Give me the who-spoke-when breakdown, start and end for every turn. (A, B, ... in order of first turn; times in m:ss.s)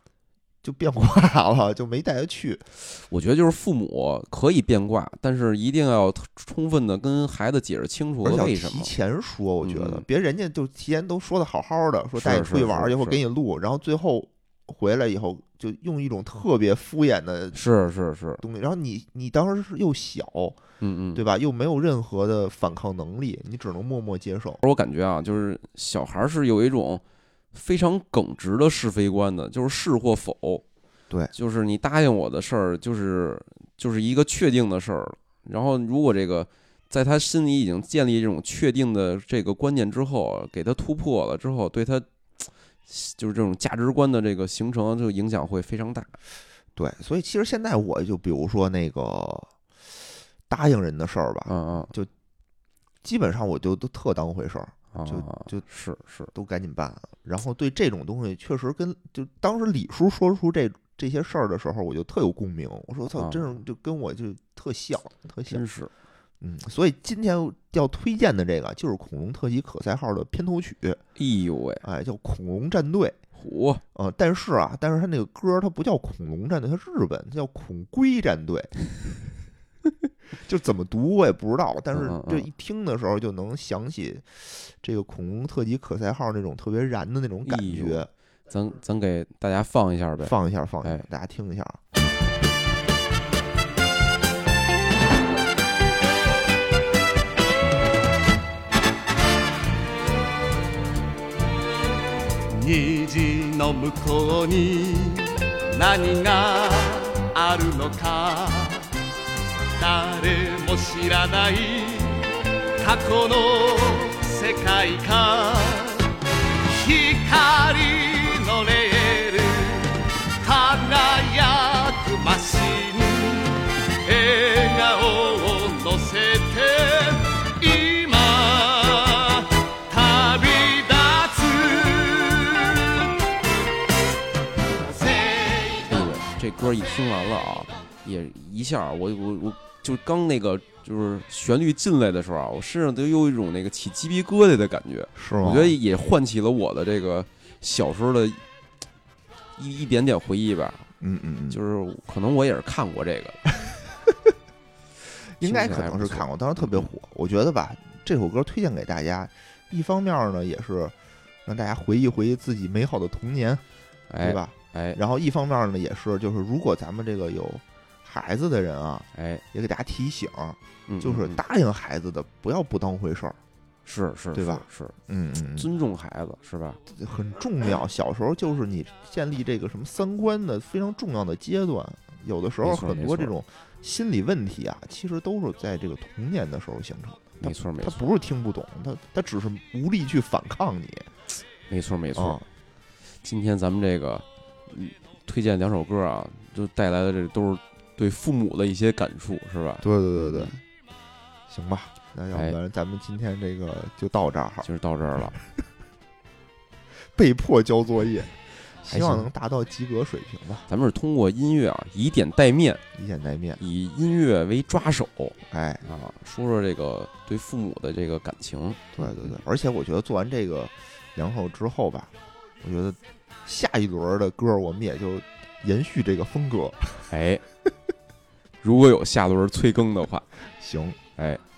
0:00.6-0:02.6 A
0:02.9-0:08.9 B
0:08.2-0:17.6 A
0:09.6-0:10.1 B
0:12.2-0:13.2 B
0:17.5-0:18.4 B
0:18.4-0:20.6 A
0:20.8-0:21.2 B
0:21.2-0:24.6 A
0:24.6-0:27.0 B
0:27.5-0:30.6 B
0:31.3-0:46.2 B
0:46.8-0:49.5 A
0:50.5-0:52.1 A
0:51.5-0:51.9 B
0:53.0-0:55.7 A
0:54.9-0:56.3 B
0:56.3-1:05.6 A
1:03.2-1:03.5 B
1:05.5-1:05.9 B
1:06.4-1:11.0 A
1:11.2-1:11.8 B
1:11.8-1:13.2 A
1:13.4-1:13.8 B
1:13.9-1:18.7 A
1:20.4-1:28.1 A
1:21.9-1:22.5 B
1:27.4-1:31.0 B
1:30.2-1:31.8 A
1:42.5-1:48.9 C
1:49.7-2:13.1 C
2:14.8-2:16.1 C
2:15.9-2:28.4 B
2:25.2-2:25.8 A
2:29.6-2:30.9 B
2:31.0-2:31.6 A
2:31.5-2:33.4 B
2:35.4-2:41.0 A
2:35.4-2:36.9 B
2:41.5-2:43.6 A
2:44.1-2:45.0 B
2:44.2-2:53.4 A
2:49.1-2:49.4 B
2:50.9-2:51.4 B
2:53.8-2:55.0 B
2:54.4-2:55.7 A
2:55.6-2:56.8 B
2:56.9-3:11.1 A
3:02.6-3:03.3 B
3:07.4-3:08.0 B
3:11.7-3:12.4 B
3:12.2-3:12.5 A
3:13.2-3:20.6 B
3:19.8-3:20.6 A
3:21.5-3:24.7 A
3:24.6-3:25.4 B
3:27.1-3:30.6 A
3:28.9-3:29.3 B
3:30.7-3:32.8 B
3:33.0-3:33.6 A
3:33.6-3:39.3 B
3:35.5-3:35.8 A
3:39.0-3:47.1 A
3:47.1-3:47.4 B
3:48.6-3:50.3 B
3:50.6-3:51.0 A
3:51.2-3:51.4 B